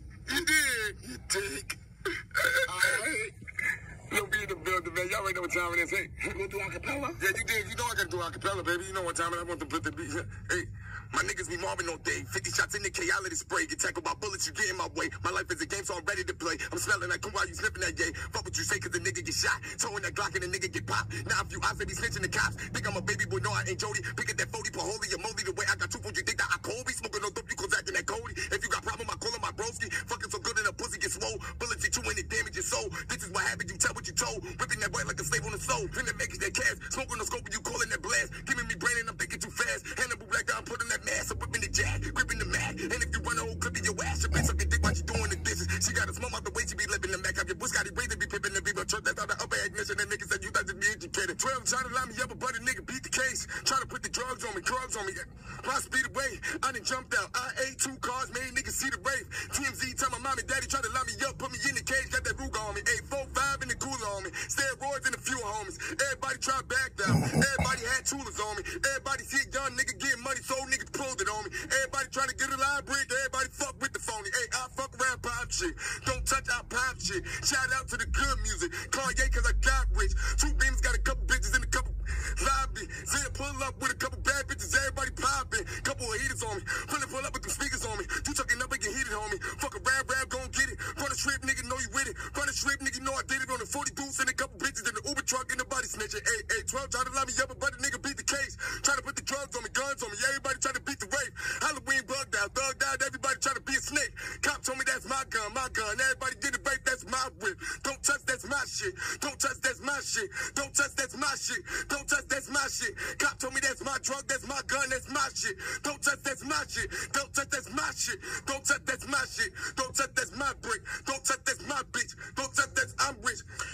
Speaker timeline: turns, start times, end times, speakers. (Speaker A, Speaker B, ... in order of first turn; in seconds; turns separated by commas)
Speaker A: 0.3-1.0, Speaker B: 1.0-1.8, Speaker A: 2.4-3.1, Speaker B: 2.7-3.3, Speaker A: 4.1-6.4, Speaker B: 6.3-7.2, Speaker A: 7.2-123.5